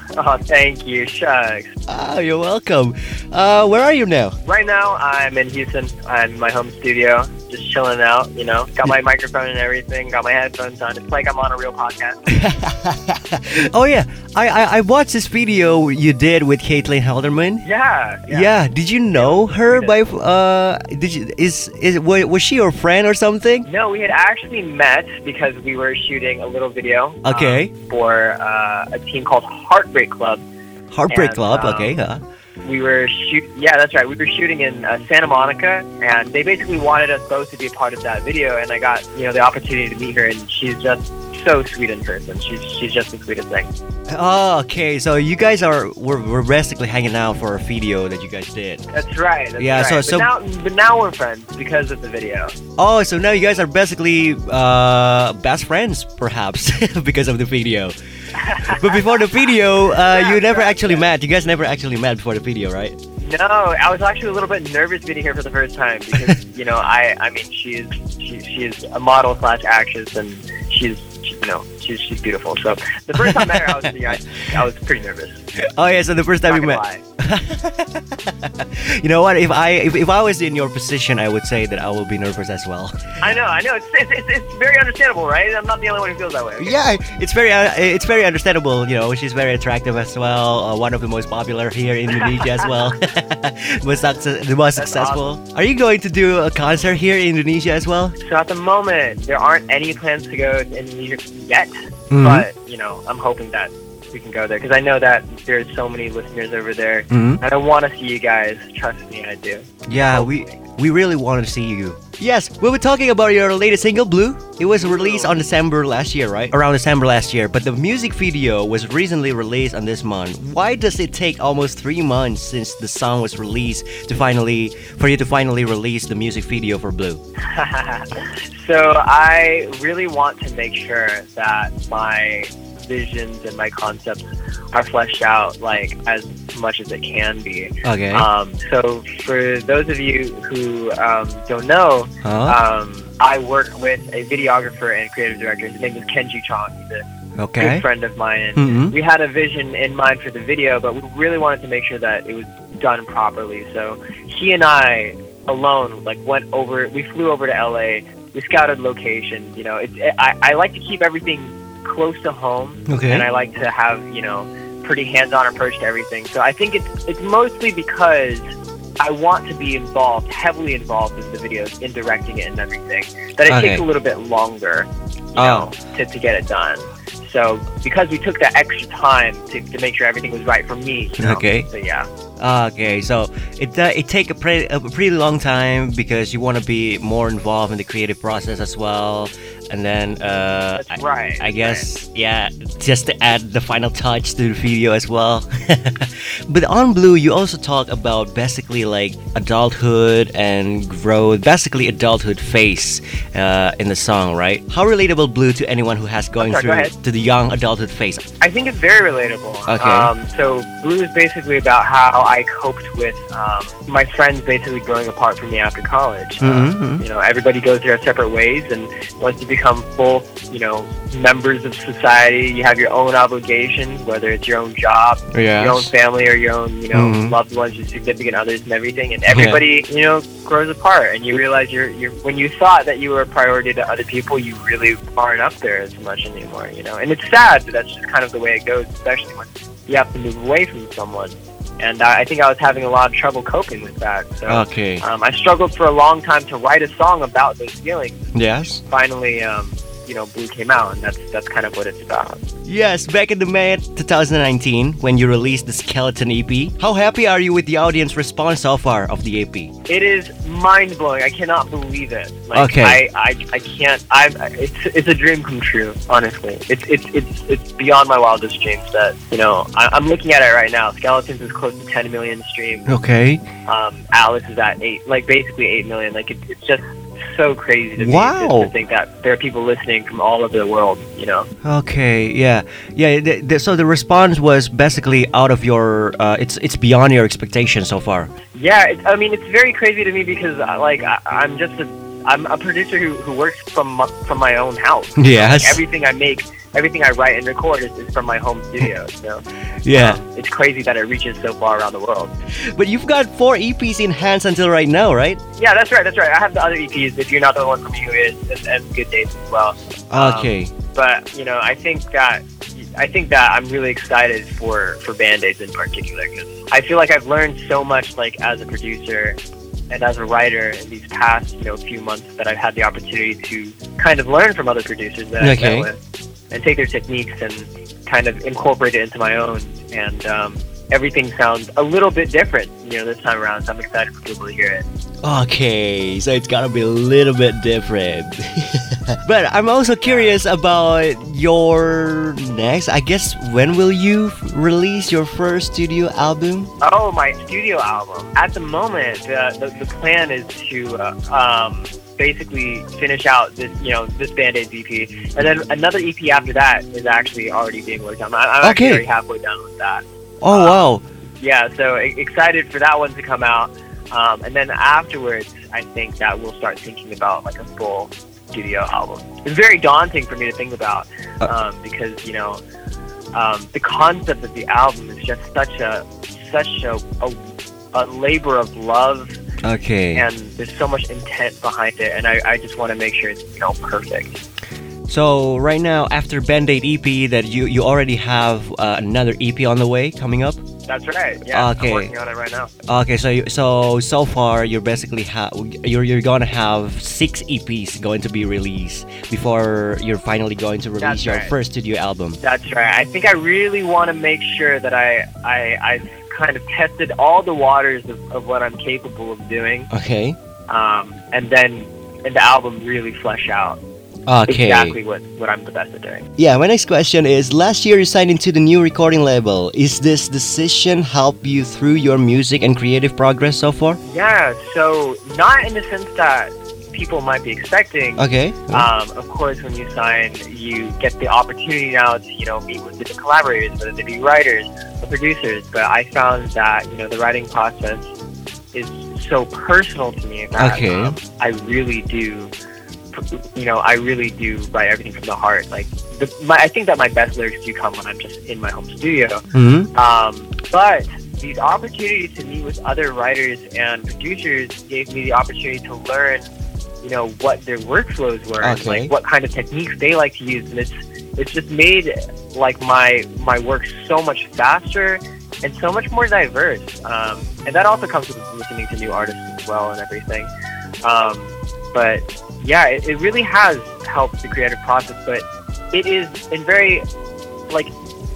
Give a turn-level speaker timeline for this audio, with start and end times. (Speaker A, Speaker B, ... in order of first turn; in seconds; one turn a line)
Speaker A: 0.1-1.8
Speaker B: 1.9-4.4
Speaker A: 4.5-12.2
Speaker B: 12.3-17.7
Speaker A: 17.6-18.5
Speaker B: 18.3-23.7
Speaker A: 19.1-20.0
Speaker A: 23.7-30.4
Speaker B: 27.2-27.7
Speaker B: 30.9-32.2
Speaker A: 31.1-31.9
Speaker A: 32.6-43.7
Speaker B: 44.1-48.9
Speaker A: 48.9-52.5
Speaker B: 49.6-50.3
Speaker B: 52.8-58.0
Speaker A: 58.3-61.1
Speaker B: 58.6-63.0
Speaker A: 63.2-75.4
Speaker B: 73.3-73.8
Speaker B: 75.6-82.9
Speaker A: 76.5-77.0
Speaker A: 83.2-86.8
Speaker B: 86.6-98.2
Speaker A: 92.1-92.9
Speaker A: 94.8-95.2
Speaker A: 98.2-110.6
Speaker B: 102.1-102.5
Speaker B: 107.1-107.4
Speaker B: 109.9-127.2
Speaker A: 114.8-115.3
Speaker A: 127.5-147.0
Speaker B: 137.8-138.3
Speaker B: 142.2-142.6
Speaker B: 147.4-147.8
Speaker A: 147.6-168.4
Speaker B: 148.6-148.9
Speaker B: 162.9-163.3
Speaker A: 169.0-182.1
Speaker B: 173.5-173.8
Speaker B: 175.4-175.7
Speaker B: 181.2-181.7
Speaker B: 182.4-208.2
Speaker A: 190.8-191.9
Speaker A: 206.4-206.9
Speaker A: 208.4-248.3
Speaker B: 209.7-210.1
Speaker B: 216.4-217.0
Speaker B: 225.3-225.9
Speaker B: 226.9-227.3
Speaker B: 229.3-229.6
Speaker B: 244.5-245.0
Speaker B: 248.3-248.8
Speaker A: 248.9-252.4
Speaker B: 252.7-259.7
Speaker A: 259.9-273.0
Speaker B: 262.5-263.0
Speaker B: 272.9-273.4
Speaker A: 273.7-281.5
Speaker B: 278.0-278.7
Speaker B: 281.6-288.3
Speaker A: 288.6-302.3
Speaker B: 295.2-295.8
Speaker B: 299.9-300.2
Speaker B: 302.7-305.4
Speaker A: 305.6-319.4
Speaker B: 310.1-310.7
Speaker A: 319.9-326.0
Speaker B: 325.4-325.9
Speaker A: 326.5-334.9
Speaker B: 335.2-346.7
Speaker A: 340.0-340.4
Speaker A: 346.8-360.9
Speaker B: 358.6-359.1
Speaker B: 360.4-361.1
Speaker A: 361.4-372.6
Speaker A: 373.3-377.4
Speaker A: 377.9-379.3
Speaker B: 379.6-380.2
Speaker A: 380.1-384.4
Speaker B: 385.1-390.6
Speaker A: 390.9-392.7
Speaker B: 391.5-392.1
Speaker B: 392.9-402.4
Speaker A: 401.0-401.5
Speaker A: 402.4-409.9
Speaker B: 409.9-410.4
Speaker A: 410.7-413.8
Speaker B: 414.3-415.0
Speaker A: 414.5-416.3
Speaker B: 416.4-424.0
Speaker A: 424.1-438.1
Speaker B: 428.2-428.9
Speaker A: 438.7-442.5
Speaker B: 440.6-441.2
Speaker A: 443.1-449.4
Speaker B: 449.5-449.9
Speaker A: 449.9-456.4
Speaker A: 457.0-470.5
Speaker B: 458.6-459.1
Speaker A: 471.0-477.0